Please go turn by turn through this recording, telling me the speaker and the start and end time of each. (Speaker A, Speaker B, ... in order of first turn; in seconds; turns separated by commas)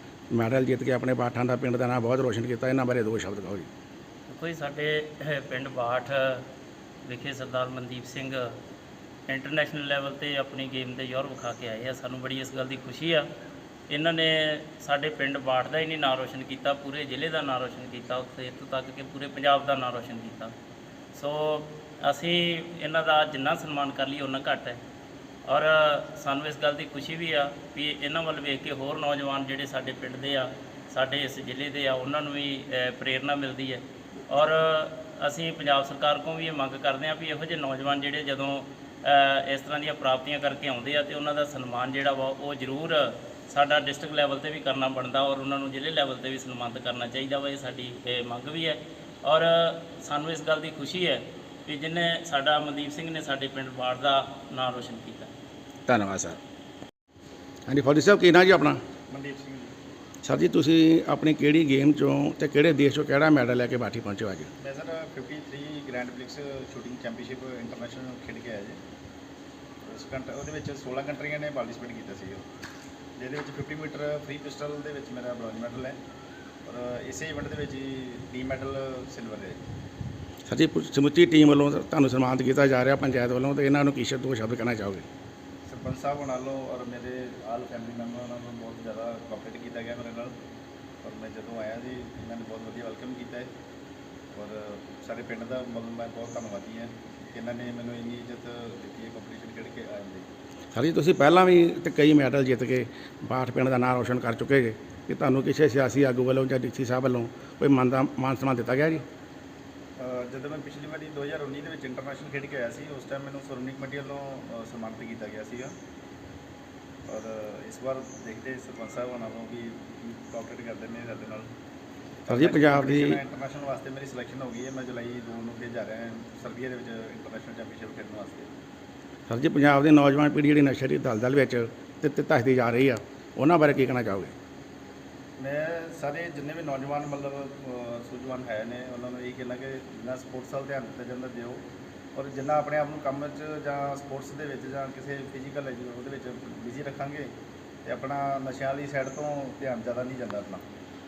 Speaker A: 0.3-3.7, Speaker B: 4.3-6.5, Speaker B: 7.0-8.5, Speaker B: 9.3-13.3, Speaker B: 13.9-20.5, Speaker B: 21.1-24.8, Speaker B: 25.4-55.3, Speaker A: 55.9-56.4, Speaker A: 57.7-58.8, Speaker C: 59.1-59.7, Speaker A: 60.2-64.5, Speaker C: 64.6-68.8, Speaker C: 69.8-72.4, Speaker C: 73.2-76.0, Speaker C: 76.6-79.6, Speaker A: 80.5-85.1, Speaker C: 85.7-90.3, Speaker C: 91.0-93.5, Speaker C: 94.3-100.2, Speaker A: 100.7-109.0, Speaker C: 110.0-115.7, Speaker C: 117.1-121.5, Speaker C: 122.2-128.5, Speaker A: 122.3-123.2, Speaker A: 129.3-134.3, Speaker C: 135.4-141.6, Speaker C: 142.2-147.3, Speaker C: 147.8-150.6